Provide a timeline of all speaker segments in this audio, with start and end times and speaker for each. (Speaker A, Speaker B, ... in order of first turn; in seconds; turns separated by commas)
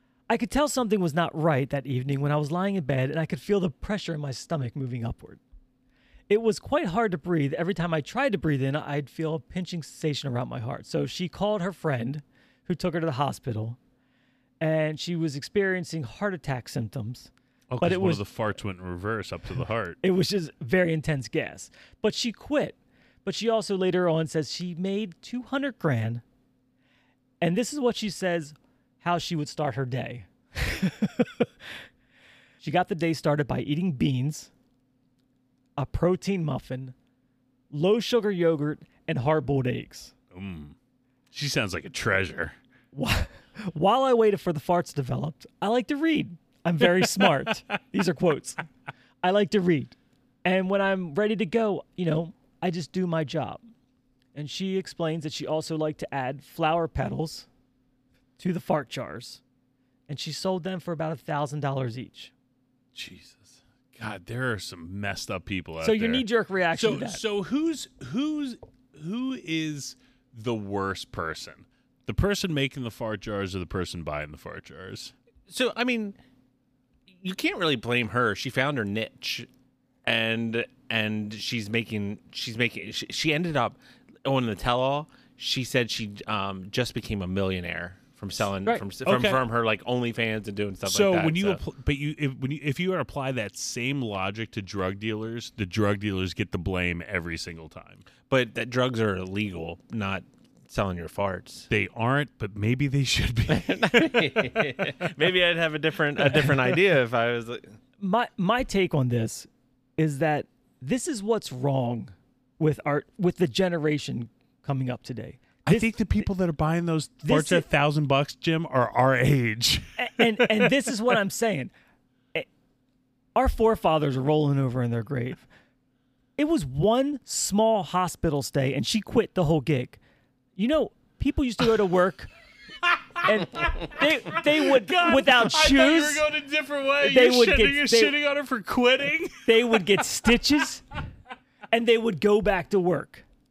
Speaker A: 0.3-5.4, Speaker A: 6.3-13.8, Speaker A: 14.6-17.3, Speaker B: 17.7-20.0, Speaker A: 17.8-18.2, Speaker A: 20.0-26.2, Speaker A: 27.4-31.5, Speaker A: 32.6-34.5, Speaker A: 35.8-36.9, Speaker A: 37.7-40.1, Speaker B: 40.3-40.8, Speaker B: 41.3-42.6, Speaker A: 42.9-48.6, Speaker A: 49.2-53.6, Speaker A: 54.3-57.5, Speaker A: 58.4-59.4, Speaker A: 60.1-62.3, Speaker B: 63.0-75.1, Speaker A: 65.8-67.2, Speaker C: 75.5-76.2, Speaker C: 77.1-79.5, Speaker C: 80.0-91.6, Speaker B: 89.0-89.4, Speaker B: 90.8-98.0, Speaker C: 98.3-101.7, Speaker B: 101.7-105.1, Speaker C: 103.5-107.7, Speaker A: 108.0-116.3, Speaker B: 115.7-120.7, Speaker A: 117.2-117.7, Speaker A: 120.0-121.7, Speaker A: 123.3-125.5, Speaker A: 126.4-130.0, Speaker A: 130.6-132.3, Speaker B: 132.9-140.0, Speaker A: 133.2-136.2, Speaker A: 137.0-138.2, Speaker A: 139.5-140.8, Speaker A: 141.7-143.2